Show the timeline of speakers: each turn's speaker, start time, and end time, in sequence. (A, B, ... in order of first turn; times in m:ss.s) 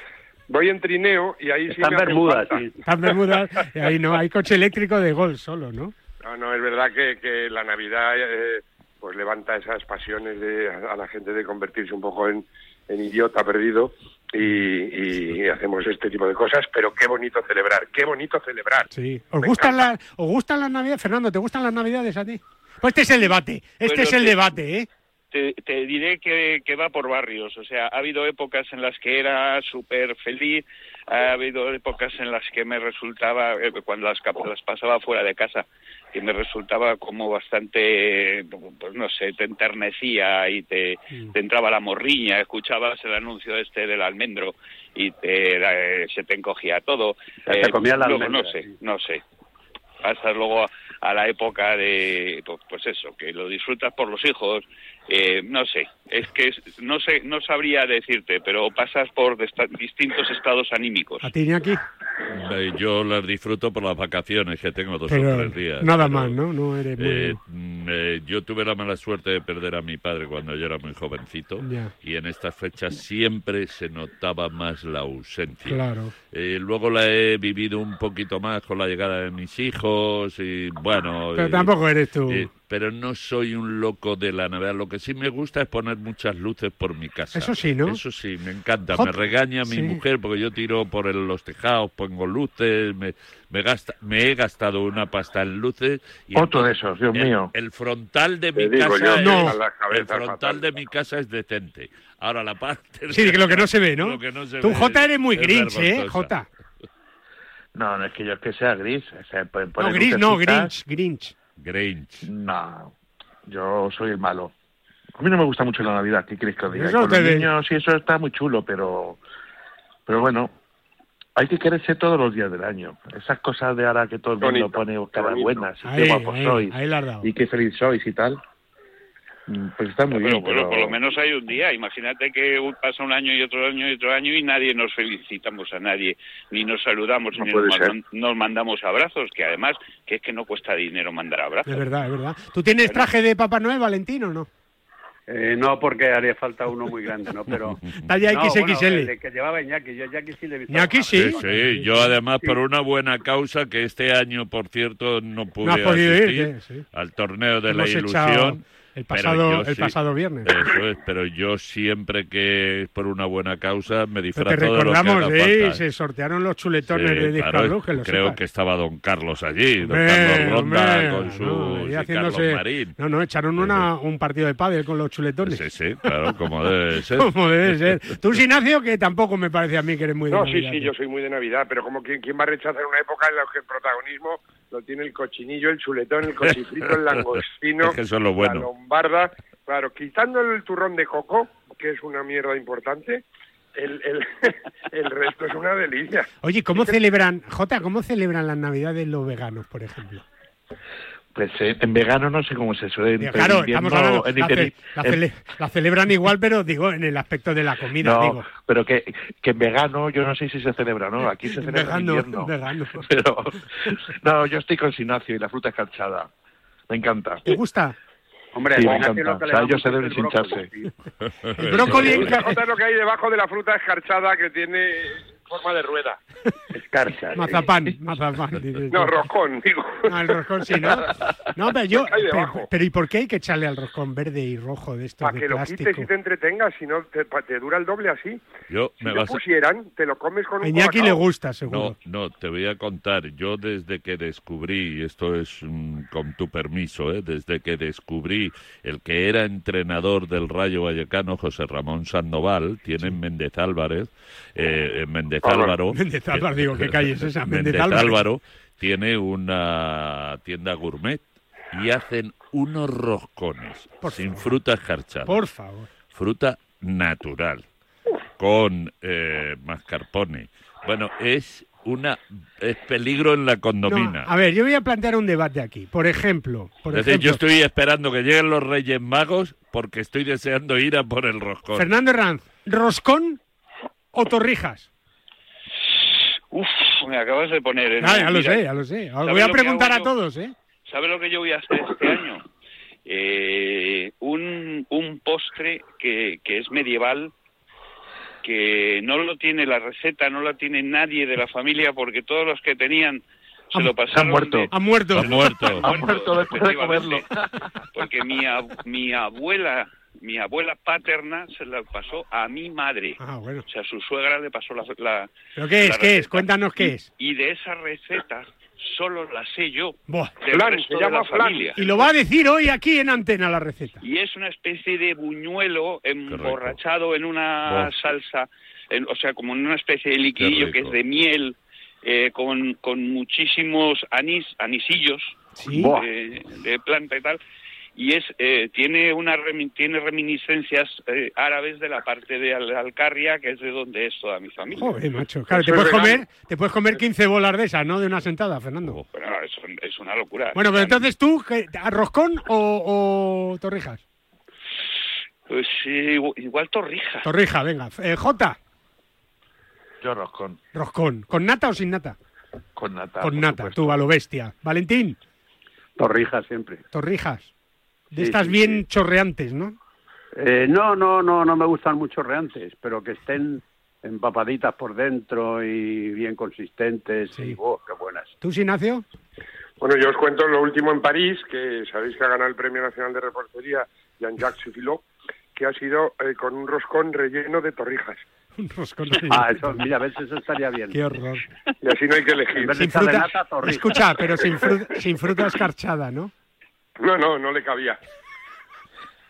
0:00.5-0:02.6 A
0:01.7-0:02.8 B
0:02.8-0:05.9 C
0:06.2-0:18.9 A
0:18.9-0:24.9 C
0:19.4-0:19.7 A
0:23.8-0:24.4 D
0:25.3-0:49.2 D
0:47.4-0:48.7 B
0:50.0-1:01.3 D
1:01.2-1:01.8 C
1:02.3-1:06.4 E
1:05.1-1:07.4 C
1:07.0-1:15.8 E
1:11.6-1:11.9 C
1:15.6-1:16.1 C
1:16.3-1:21.7 E
1:21.4-1:22.5 C
1:22.3-1:46.3 E
1:27.3-1:28.0 C
1:28.9-1:30.0 C
1:36.3-1:37.5 F
1:38.5-1:40.8 A
1:39.2-1:39.6 C
1:43.1-1:46.5 C
1:47.7-1:50.7 F
1:49.8-1:51.3 C
1:51.6-1:52.3 E
1:52.2-1:52.9 F
1:53.4-1:54.5 F
1:55.2-1:59.2 F
1:56.7-1:57.5 C
2:00.1-2:00.5 F
2:01.4-2:08.4 F
2:04.4-2:05.6 A
2:05.8-2:07.3 C
2:09.5-2:11.0 F
2:10.1-2:21.8 D
2:17.6-2:17.8 F
2:21.6-2:24.5 C
2:25.3-2:31.8 B
2:28.0-2:29.1 C
2:30.7-2:32.1 C
2:31.1-2:45.8 E
2:35.6-2:36.8 C
2:37.7-2:40.8 C
2:44.3-2:48.4 C
2:46.9-2:52.9 E
2:49.8-2:55.6 C
2:53.6-2:53.9 E
2:55.4-2:57.9 E
2:57.2-3:00.9 C
3:00.3-3:13.2 A
3:07.8-3:08.7 E
3:13.7-3:16.9 A
3:16.4-3:20.2 C
3:21.3-3:25.2 F
3:23.2-3:28.5 C
3:28.0-3:36.3 F
3:31.6-3:33.1 C
3:36.9-3:37.4 F
3:37.4-3:38.0 C
3:38.5-3:40.9 B
3:38.7-3:40.7 F
3:41.6-3:42.6 C
3:41.6-3:42.3 E
3:42.0-3:46.2 A
3:46.7-3:47.5 B
3:47.3-3:49.2 C
3:48.9-3:50.2 A
3:50.1-3:56.1 C
3:51.9-3:52.7 A
3:55.2-3:58.4 A
3:58.7-3:59.4 E
3:59.0-4:01.2 A
4:00.6-4:01.9 C
4:01.7-4:25.4 E
4:15.4-4:15.7 A
4:15.9-4:18.2 C
4:24.0-4:24.5 C
4:25.3-4:25.9 C
4:26.1-4:27.6 E
4:28.4-4:34.3 E
4:33.9-4:37.4 C
4:36.9-4:41.9 E
4:41.7-4:43.4 C
4:44.1-4:44.9 C
4:46.5-4:48.6 D
4:48.0-4:50.5 C
4:49.2-4:50.1 D
4:50.9-4:52.4 D
4:53.0-4:57.3 D
4:58.4-5:04.7 D
5:04.1-5:04.7 F
5:04.7-5:05.7 C
5:05.1-5:05.8 E
5:05.8-5:07.4 F
5:05.8-5:07.2 D
5:07.9-5:22.0 D
5:13.2-5:13.6 C
5:15.6-5:17.1 C
5:20.1-5:20.3 C
5:20.5-5:21.7 A
5:21.8-5:24.0 C
5:24.0-5:37.4 D
5:26.3-5:26.8 E
5:27.6-5:28.0 E
5:30.4-5:31.0 E
5:35.6-5:36.0 C
5:35.7-5:36.0 B
5:38.0-5:45.0 D
5:44.7-5:49.0 C
5:45.5-5:46.2 A
5:49.1-5:51.0 D
5:50.5-5:54.0 C
5:55.5-5:57.3 D
5:57.2-5:58.6 C
6:00.0-6:00.6 F
6:00.7-6:02.2 C
6:02.8-6:04.0 F
6:03.2-6:05.2 C
6:06.0-6:06.8 B
6:06.9-6:07.5 C
6:08.1-6:09.8 C
6:08.1-6:08.8 B
6:10.3-6:18.3 B
6:18.4-6:19.0 C
6:19.8-6:28.2 A
6:28.6-6:29.8 C
6:29.3-6:31.0 B
6:30.9-6:31.4 C
6:31.8-6:32.8 A
6:32.6-6:34.1 B
6:32.8-6:36.3 C
6:37.0-6:38.0 A